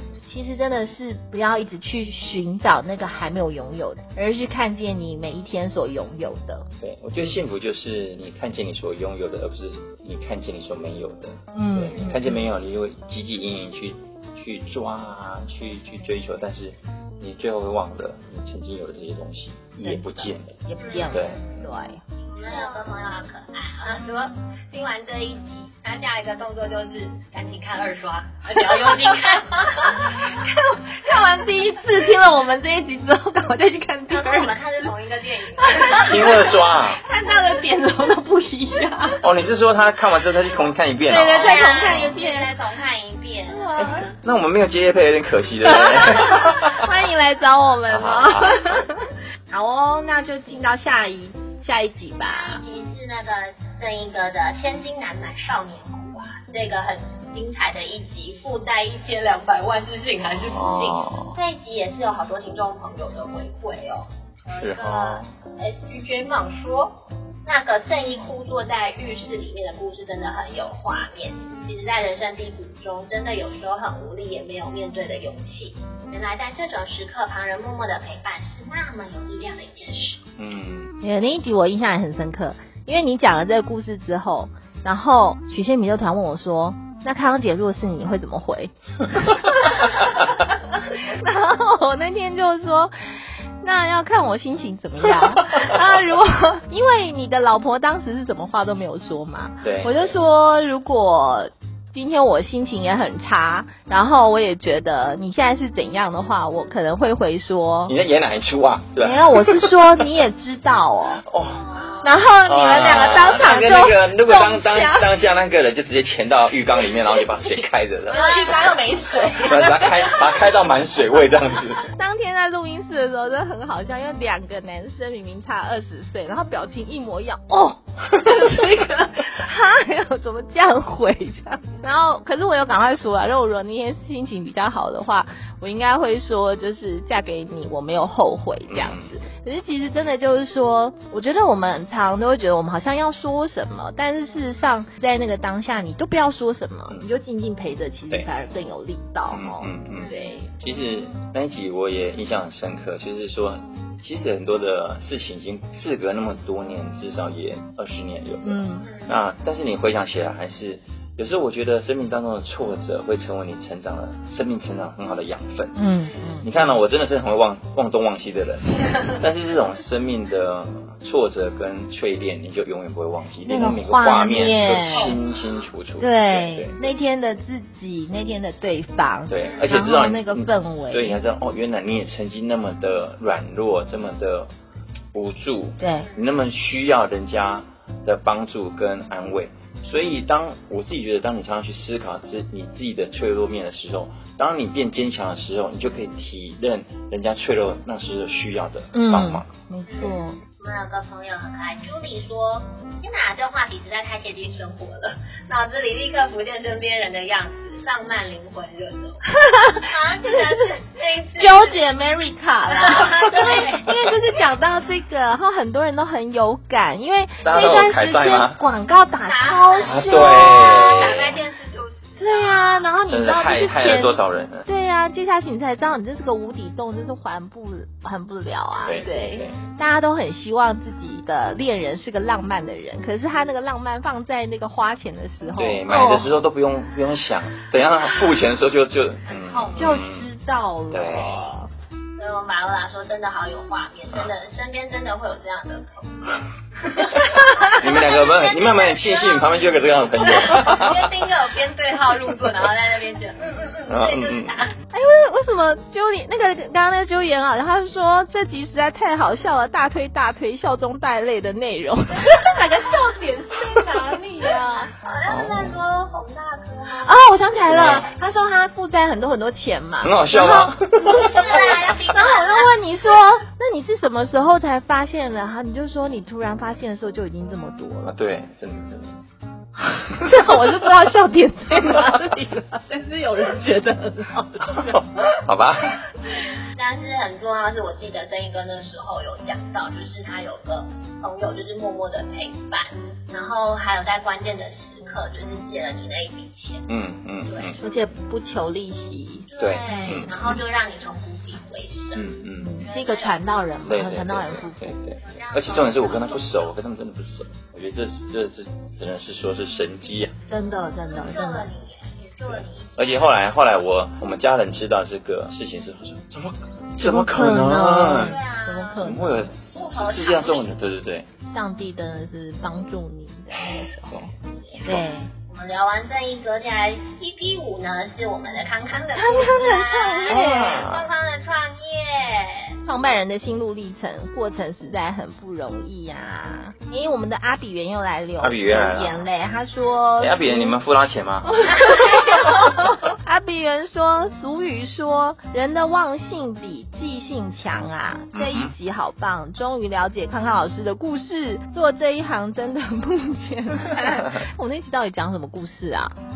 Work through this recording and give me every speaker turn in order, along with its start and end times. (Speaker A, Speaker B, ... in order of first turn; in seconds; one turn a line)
Speaker A: 0.3-6.7
Speaker B: 6.8-21.5
Speaker A: 11.5-12.4
Speaker A: 19.8-22.7
Speaker C: 20.8-21.3
Speaker C: 22.3-30.3
Speaker A: 28.5-29.1
Speaker A: 29.8-34.9
Speaker C: 34.1-36.6
Speaker A: 35.6-39.2
Speaker B: 36.0-37.0
Speaker B: 39.2-42.1
Speaker A: 41.1-42.5
Speaker C: 41.4-43.6
Speaker A: 43.5-44.1
Speaker B: 44.2-46.9
Speaker A: 45.6-52.6
Speaker B: 47.9-48.9
Speaker C: 52.2-80.2
Speaker B: 60.4-61.4
Speaker B: 64.6-65.3
Speaker B: 80.4-80.9
Speaker A: 81.0-92.9
Speaker A: 93.6-107.9
Speaker B: 99.6-100.2
Speaker B: 107.9-110.0
Speaker A: 109.0-111.2
Speaker B: 111.2-111.6
Speaker C: 111.6-112.1
Speaker A: 112.0-115.1
Speaker B: 112.4-121.9
Speaker A: 118.1-120.3
Speaker C: 118.1-118.8
Speaker A: 121.9-150.5
Speaker B: 138.7-139.1
Speaker B: 149.3-165.8
Speaker C: 149.9-150.3
Speaker A: 158.4-158.9
Speaker C: 158.8-159.1
Speaker A: 165.7-166.7
Speaker B: 166.4-176.8
Speaker A: 173.4-175.2
Speaker A: 176.0-181.2
Speaker B: 179.3-184.5
Speaker B: 185.1-199.5
Speaker A: 185.8-186.1
Speaker A: 198.9-200.4
Speaker C: 199.8-211.8
Speaker A: 209.3-210.7
Speaker A: 211.3-221.0
Speaker C: 212.7-213.9
Speaker B: 217.4-218.6
Speaker C: 219.2-222.8
Speaker B: 219.8-221.4
Speaker A: 222.2-236.3
Speaker B: 223.1-224.7
Speaker B: 228.8-229.6
Speaker B: 235.6-240.2
Speaker C: 239.3-240.0
Speaker A: 239.7-241.7
Speaker B: 240.9-241.5
Speaker C: 242.2-249.6
Speaker A: 247.3-247.8
Speaker B: 247.7-251.1
Speaker C: 250.2-254.7
Speaker B: 253.9-254.5
Speaker A: 254.9-264.9
Speaker C: 264.9-267.2
Speaker B: 265.2-265.8
Speaker A: 267.0-278.1
Speaker B: 267.6-268.1
Speaker B: 270.0-271.8
Speaker C: 271.0-272.8
Speaker B: 278.1-279.1
Speaker A: 280.1-285.0
Speaker B: 284.9-286.0
Speaker C: 286.7-296.9
Speaker B: 296.9-297.8
Speaker C: 297.4-298.1
Speaker A: 297.8-300.5
Speaker C: 299.5-303.4
Speaker B: 299.6-300.4
Speaker B: 302.1-302.8
Speaker A: 302.6-304.9
Speaker B: 303.8-310.3
Speaker C: 305.2-306.7
Speaker A: 310.5-311.7
Speaker C: 311.1-313.3
Speaker B: 312.5-318.4
Speaker A: 317.0-319.4
Speaker C: 318.1-319.1
Speaker B: 319.0-321.3
Speaker C: 319.7-320.8
Speaker A: 321.4-324.3
Speaker C: 324.5-332.8
Speaker A: 324.8-325.3
Speaker A: 329.2-330.8
Speaker B: 330.3-331.1
Speaker A: 332.8-340.7
Speaker B: 338.4-339.2
Speaker B: 340.2-341.9
Speaker A: 341.5-356.1
Speaker B: 348.3-348.7
Speaker B: 354.0-354.4